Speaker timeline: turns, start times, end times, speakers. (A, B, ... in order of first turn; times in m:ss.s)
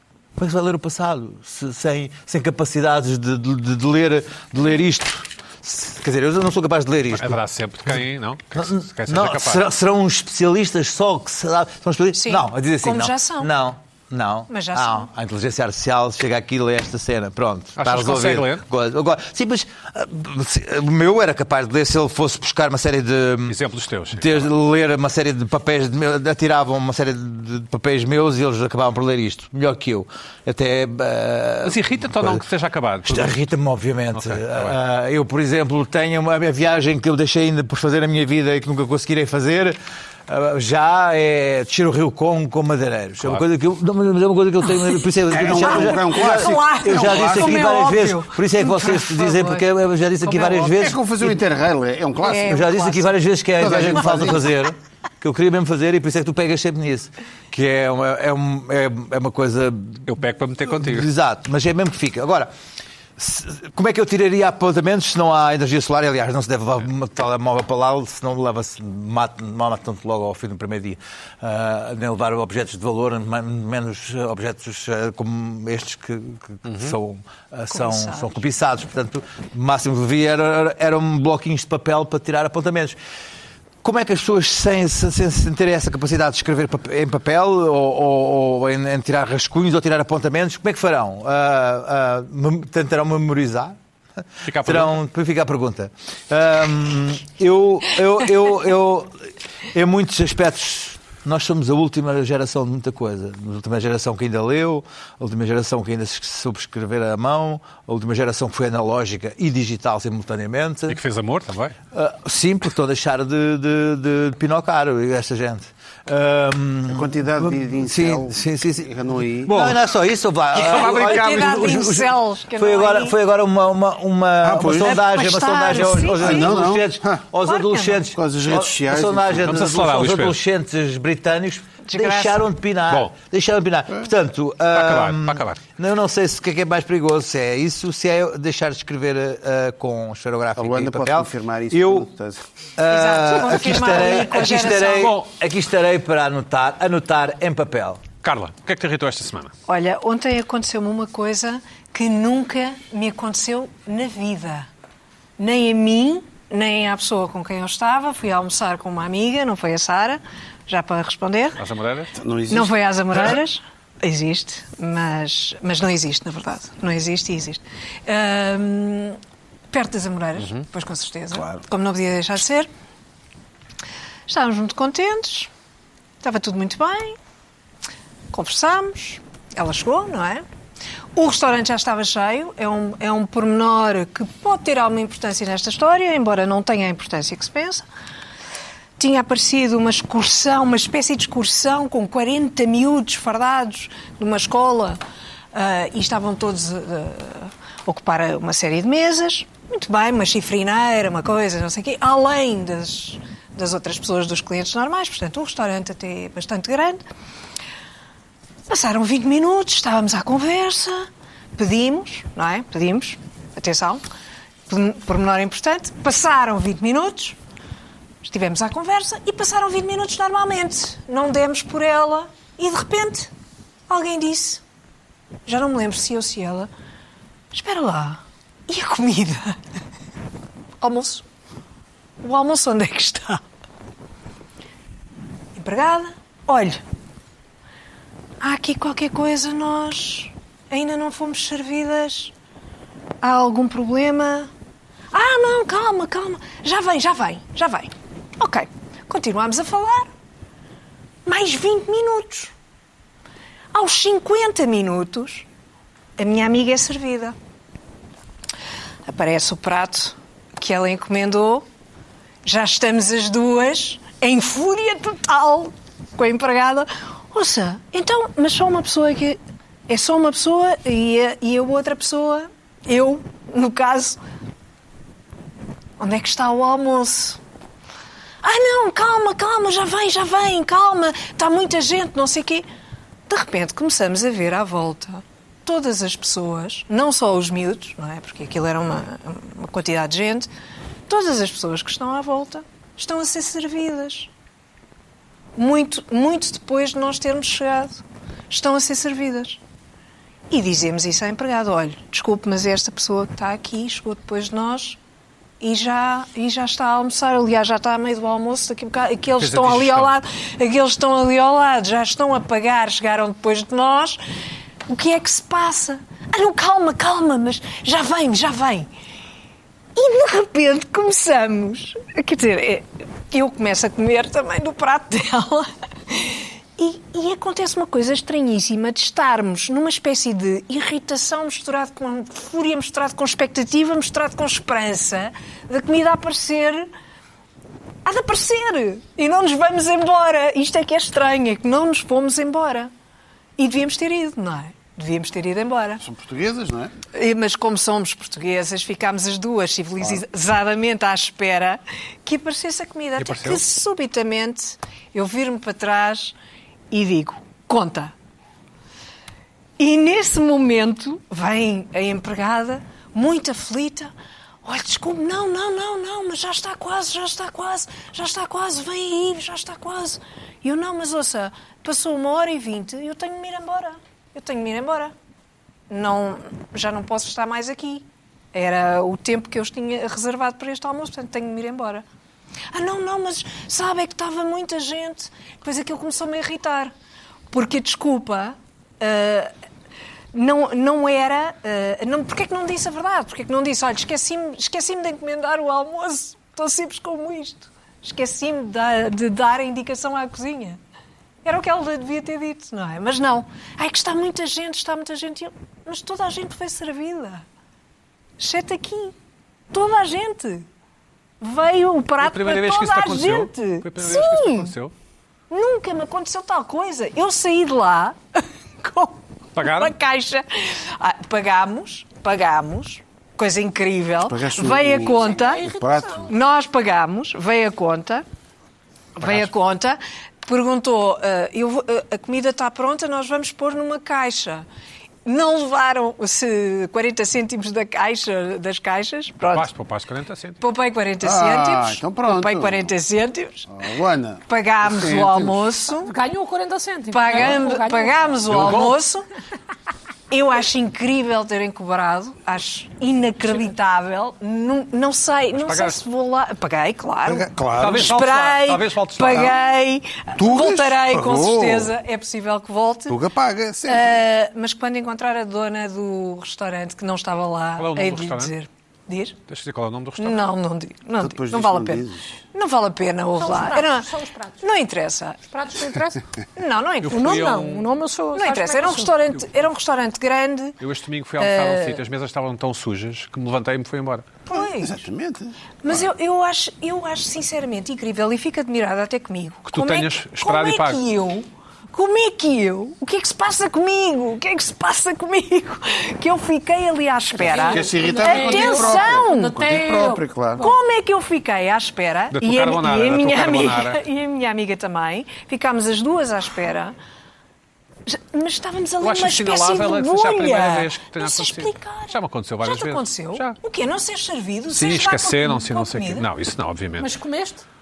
0:00.4-0:07.4 A
0:07.1-0:09.6 B
0:08.5-0:23.6 A
0:12.1-0:13.5 C
0:14.5-0:15.1 C
0:17.8-0:18.6 B
0:23.5-0:24.5 B
0:24.1-0:32.4 A
0:31.6-0:33.3 B
0:33.0-0:51.4 A
0:34.1-0:34.7 B
0:45.3-0:47.8 D
0:45.5-0:49.6 C
0:50.3-0:52.8 D
0:52.2-0:53.1 C
0:52.3-1:00.1 A
0:53.6-0:54.4 D
0:53.8-0:54.3 C
1:00.0-1:01.1 B
1:00.7-1:02.5 A
1:03.2-1:23.0 A
1:16.6-1:16.9 B
1:17.7-1:18.4 C
1:23.8-1:33.8 A
1:34.4-1:35.0 B
1:34.6-1:39.1 A
1:39.7-1:51.0 A
1:50.9-1:51.7 B
1:51.9-1:58.9 A
1:56.9-1:59.8 D
1:59.4-2:22.1 A
2:00.6-2:03.2 C
2:04.4-2:05.0 D
2:04.8-2:06.6 C
2:06.1-2:07.2 D
2:07.4-2:08.0 C
2:08.1-2:09.6 D
2:09.4-2:10.4 B
2:11.8-2:12.4 C
2:14.7-2:15.6 B
2:20.6-2:22.4 D
2:22.8-2:28.0 A
2:22.9-2:25.1 C
2:25.0-2:25.2 B
2:28.2-2:29.5 B
2:29.7-2:34.7 C
2:35.4-2:41.6 C
2:41.6-2:42.1 B
2:42.2-2:43.3 D
2:42.5-2:49.2 C
2:49.7-2:52.7 C
2:50.4-2:50.6 B
2:51.3-2:51.6 D
2:54.3-2:55.5 C
2:56.2-2:57.2 C
2:58.3-3:00.4 C
3:01.2-3:07.8 C
3:09.0-3:15.0 C
3:15.5-3:27.0 C
3:28.7-3:34.0 C
3:34.7-3:37.4 C
3:38.2-3:43.3 C
3:43.9-3:44.6 C
3:45.4-3:46.7 C
3:47.5-3:49.6 C
3:50.8-3:51.2 C
3:52.2-3:53.4 C
3:55.5-3:56.8 C
3:58.4-4:02.3 C
4:03.2-4:04.5 C
4:05.1-4:10.1 C
4:11.2-4:12.5 C
4:13.7-4:15.4 C
4:16.2-4:17.3 C
4:19.0-4:21.6 C
4:22.4-4:34.2 C
4:36.0-4:37.4 C
4:38.4-4:42.6 C
4:43.3-4:50.5 C
4:51.1-4:54.3 C
4:55.6-4:59.6 C
5:00.5-5:05.0 C
5:05.6-5:14.2 C
5:09.4-5:10.1 B
5:14.9-5:18.9 C
5:20.0-5:36.9 C
5:38.0-5:42.9 C
5:43.6-5:46.0 C
5:46.0-5:46.9 D
5:47.1-5:56.3 C
5:53.2-5:53.6 B
5:56.9-5:58.1 C
5:59.8-6:04.1 C
6:04.6-6:15.1 C
6:15.9-6:22.0 C
6:22.7-6:26.9 C
6:27.5-6:29.5 C
6:30.3-6:40.8 C
6:41.4-6:47.4 C
6:48.4-6:49.1 C
6:49.7-6:50.6 C
6:51.4-6:54.7 C
6:52.2-6:54.9 B
6:55.5-7:08.2 C
6:59.6-6:59.9 B
7:04.3-7:06.3 D
7:05.3-7:06.0 E
7:09.2-7:14.6 C
7:09.2-7:09.5 B
7:15.2-7:19.7 C
7:19.5-7:20.6 B
7:20.6-7:23.7 C
7:21.2-7:22.9 D
7:23.7-7:25.6 D
7:24.5-7:26.1 C
7:26.0-7:28.2 E
7:27.1-7:29.2 C
7:28.5-7:28.9 B
7:30.3-7:43.2 C
7:35.6-7:36.0 B
7:37.2-7:38.2 D
7:37.8-7:39.5 B
7:40.4-7:41.9 D
7:43.1-7:44.2 D
7:43.9-7:49.4 C
7:47.8-7:48.5 B
7:49.5-7:50.4 B
7:50.2-7:55.4 C
7:51.2-7:52.3 D
7:53.4-7:54.6 E
7:55.5-7:56.2 E
7:56.6-7:57.5 C
7:57.0-7:57.8 B
7:57.1-7:59.1 E
7:58.3-8:00.8 C
8:00.8-8:04.2 B
8:01.4-8:02.0 C
8:04.5-8:05.0 C
8:04.5-8:06.0 D
8:05.8-8:19.6 C
8:09.6-8:11.0 B
8:17.4-8:20.7 E
8:17.5-8:20.7 D
8:20.6-8:27.0 C
8:22.3-8:24.0 B
8:28.0-8:36.3 C
8:29.0-8:33.6 B
8:34.7-8:37.1 B
8:37.0-8:37.6 E